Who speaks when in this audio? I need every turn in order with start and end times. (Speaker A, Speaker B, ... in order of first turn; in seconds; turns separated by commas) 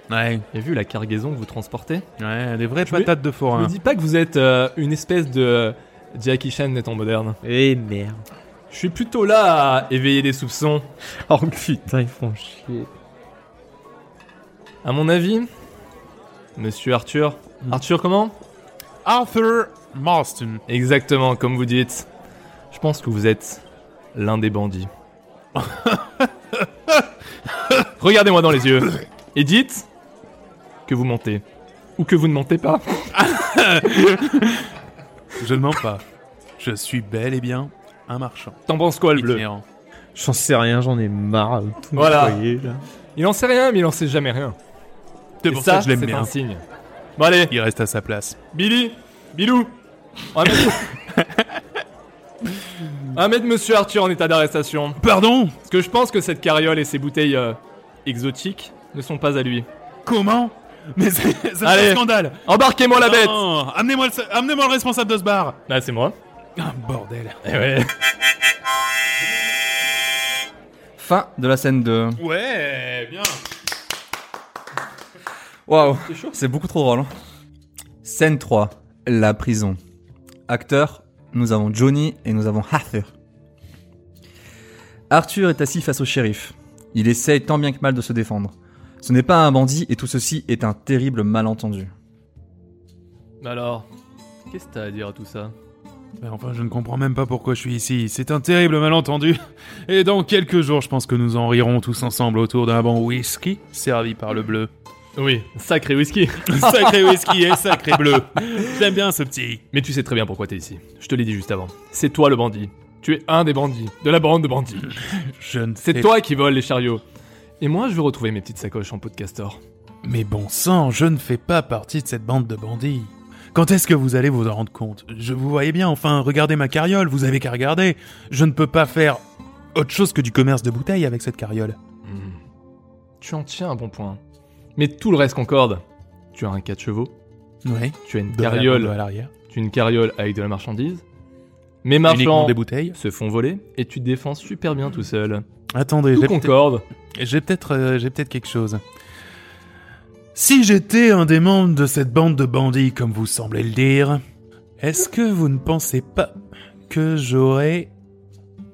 Speaker A: 0.1-0.5, Speaker B: 0.5-2.1, Speaker A: 2.2-3.7, Speaker B: 2.9-7.4, Speaker C: 7.4-8.2, Speaker B: 8.7-10.9, Speaker C: 11.3-12.9, Speaker B: 14.8-15.5, Speaker B: 16.6-18.4, Speaker A: 19.1-20.6, Speaker B: 20.7-22.1, Speaker B: 22.7-23.6, Speaker B: 24.1-24.9, Speaker A: 25.6-26.3, Speaker B: 28.0-29.9, Speaker B: 30.9-31.4, Speaker B: 32.0-33.1, Speaker A: 33.1-34.7, Speaker A: 35.4-36.0, Speaker A: 36.6-38.6, Speaker B: 38.7-39.4, Speaker A: 39.1-39.6, Speaker C: 40.1-42.8, Speaker B: 42.0-42.4, Speaker B: 43.2-44.6, Speaker A: 45.4-46.3, Speaker B: 45.5-46.6, Speaker B: 47.2-47.5, Speaker A: 47.5-48.4, Speaker B: 48.5-49.8, Speaker B: 50.3-50.9, Speaker A: 51.1-51.4, Speaker B: 53.1-55.0, Speaker A: 55.0-55.6, Speaker B: 55.7-59.7, Speaker A: 60.1-65.6, Speaker B: 61.6-63.4, Speaker B: 65.7-66.2, Speaker A: 66.6-67.4, Speaker B: 67.4-67.9, Speaker D: 71.0-72.2, Speaker A: 72.2-73.4, Speaker D: 75.7-77.1, Speaker B: 76.1-76.3, Speaker D: 78.0-79.8, Speaker D: 80.5-83.1, Speaker D: 85.1-91.9, Speaker B: 93.4-93.9, Speaker B: 94.5-95.5, Speaker A: 96.2-104.7, Speaker B: 105.2-107.3, Speaker A: 106.5-109.6, Speaker B: 109.7-114.9, Speaker A: 115.2-116.1, Speaker B: 115.8-117.0, Speaker B: 117.6-119.6, Speaker A: 120.0-129.2, Speaker A: 129.8-131.8, Speaker B: 132.1-132.4, Speaker B: 133.2-134.2, Speaker B: 134.8-137.2, Speaker A: 137.7-139.3, Speaker B: 138.1-138.9, Speaker B: 139.5-141.0, Speaker B: 141.8-145.4, Speaker A: 142.1-143.0, Speaker A: 145.8-146.6, Speaker B: 146.2-146.8, Speaker A: 147.2-148.8, Speaker A: 150.3-154.2, Speaker A: 154.8-157.9